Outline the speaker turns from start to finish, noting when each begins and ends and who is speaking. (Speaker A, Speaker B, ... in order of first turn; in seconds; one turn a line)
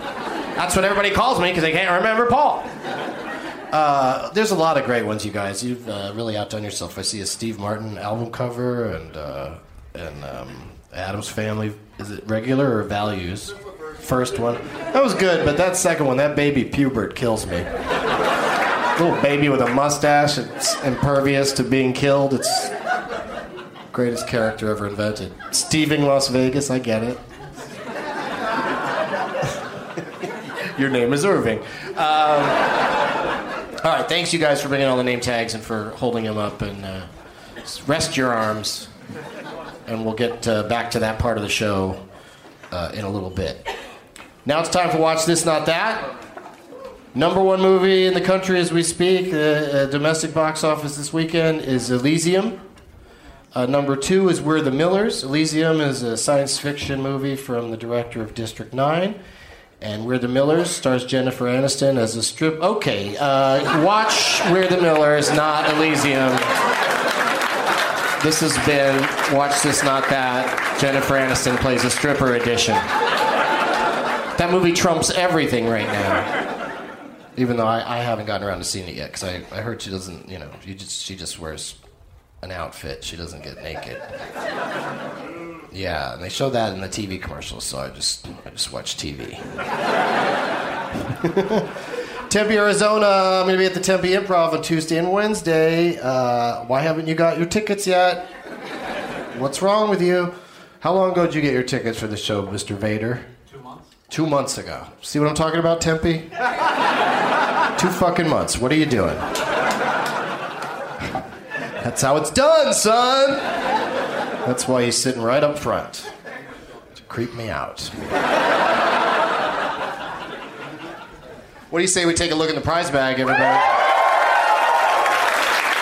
Speaker A: 0.6-2.7
Speaker A: 3.7-17.7
Speaker A: 18.9-22.7
Speaker A: 23.9-27.2
Speaker A: 30.7-32.7
Speaker A: 33.8-37.1
Speaker A: 37.6-38.9
Speaker A: 39.9-42.0
Speaker A: 42.7-43.6
Speaker A: 44.4-46.1
Speaker A: 47.1-52.6
Speaker A: 53.5-59.2
Speaker A: 59.8-66.4
Speaker A: 68.2-72.8
Speaker A: 74.3-76.3
Speaker A: 77.4-81.8
Speaker A: 82.4-84.0
Speaker A: 85.7-89.4
Speaker A: 91.2-91.7
Speaker A: 92.3-98.3
Speaker A: 99.3-103.3
Speaker A: 104.1-106.3
Speaker A: 107.8-109.3
Speaker A: 111.8-113.5
Speaker A: 114.4-116.1
Speaker A: 117.0-117.9
Speaker A: 121.7-123.7